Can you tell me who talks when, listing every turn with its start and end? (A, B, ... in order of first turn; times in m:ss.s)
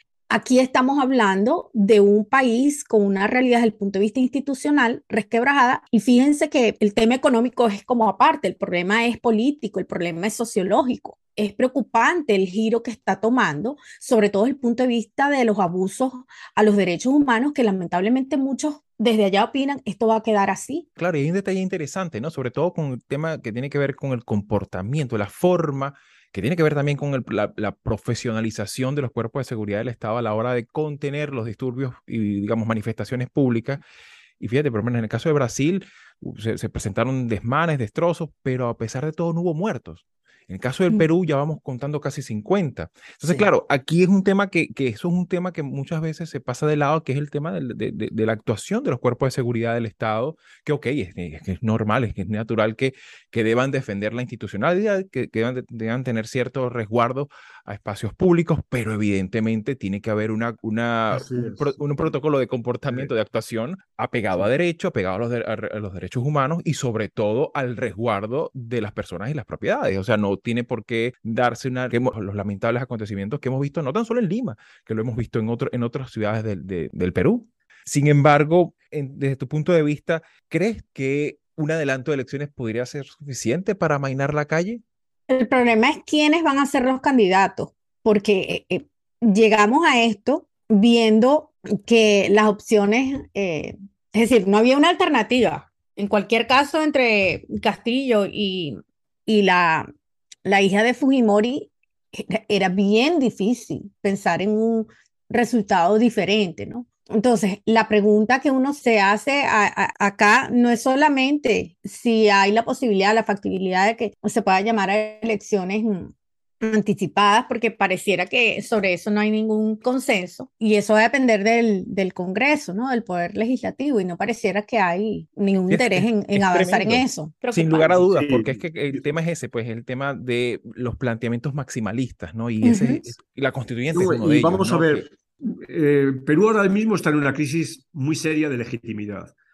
0:00.3-0:20.9 A
0:21.0-0:33.8 B
0:34.4-1:24.8 B
1:01.1-1:01.8 C
1:25.3-1:39.9 A
1:40.4-2:08.0 A
2:05.7-2:15.1 B
2:08.1-2:09.1 C
2:12.6-2:13.1 A
2:13.9-2:19.3 C